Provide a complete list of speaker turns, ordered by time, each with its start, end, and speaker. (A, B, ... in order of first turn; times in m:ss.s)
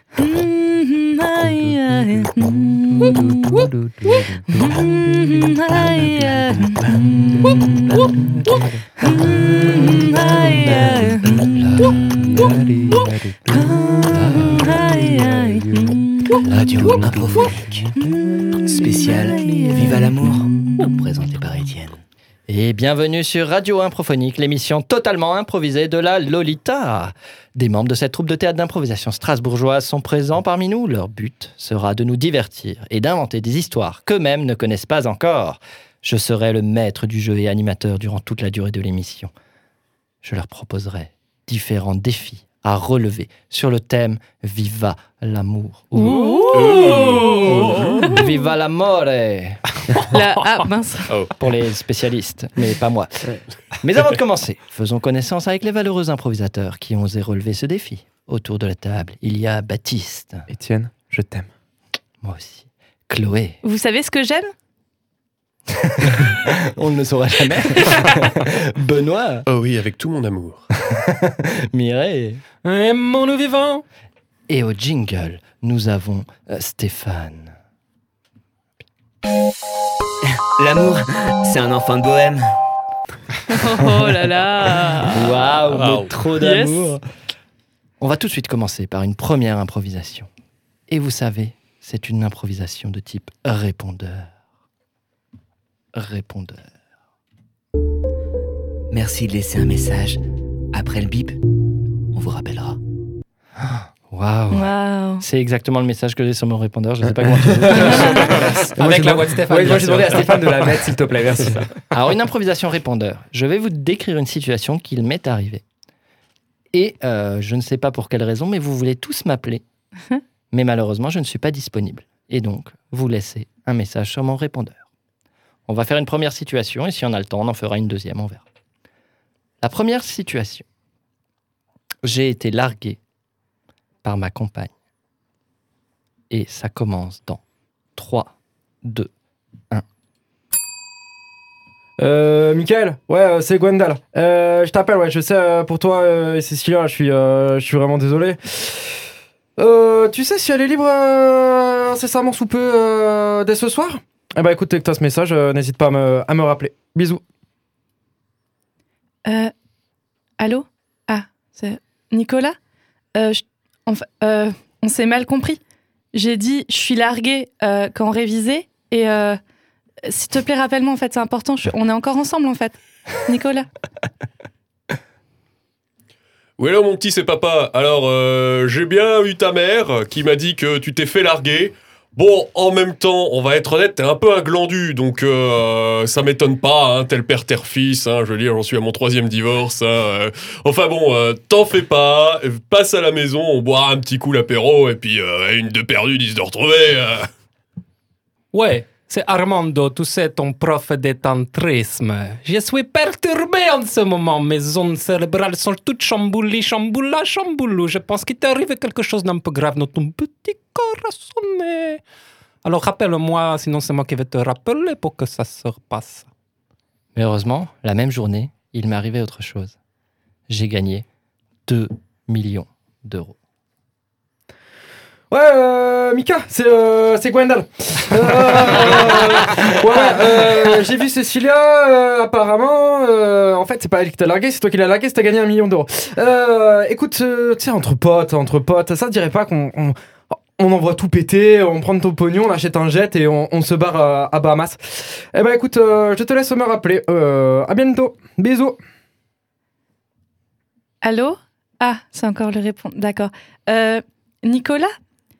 0:00.2-0:03.7 A
0:04.5-0:06.9 A
0:09.0-0:11.5 A
0:09.3-0:12.6 B
0:13.5-0:16.4 A
0:14.1-0:15.3 B
0:16.4-0:17.9 C
0:16.4-0:17.5 B
0:18.0-0:20.0 A
0:18.6-0:22.0 C
0:22.5-0:39.3 B
0:40.2-0:49.6 B
0:45.9-0:48.4 A
0:46.5-0:48.2 D
0:50.0-0:51.1 A
0:51.4-1:00.5 B
1:00.5-1:01.5 E
1:02.2-1:03.6 B
1:03.6-1:04.5 A
1:05.7-1:09.4 B
1:09.5-1:10.6 D
1:10.8-1:12.4 B
1:12.6-1:13.8 F
1:14.5-1:17.5 B
1:20.6-1:22.5 C
1:23.5-1:25.5 A
1:25.1-1:27.0 B
1:25.7-1:26.1 D
1:26.3-1:26.9 A
1:28.0-1:30.3 B
1:30.9-1:34.3 B
1:35.9-1:36.6 B
1:38.9-1:41.4 C
1:42.1-1:42.8 C
1:43.6-1:48.5 B
1:44.5-1:45.2 A
1:47.4-1:51.7 E
1:47.7-1:48.4 A
1:48.3-1:50.8 F
1:51.9-1:55.6 B
1:56.7-1:59.6 B
2:00.5-2:04.8 B
2:05.7-2:08.4 B
2:09.6-2:10.6 B
2:12.0-2:13.0 B
2:14.0-2:14.7 B
2:16.3-2:17.4 B
2:18.0-2:19.1 B
2:22.0-2:29.0 E
2:29.6-2:37.2 E
2:39.2-2:39.5 A
2:40.4-2:42.6 A
2:43.1-2:45.6 A
2:46.1-2:49.4 A
2:50.0-2:53.7 A
2:56.6-3:17.3 D
3:18.5-3:32.0 F
3:32.6-3:36.3 F
3:37.1-3:39.8 B
3:40.5-3:41.0 B
3:41.7-3:43.4 B
3:45.3-4:08.8 E
4:11.0-4:14.9 A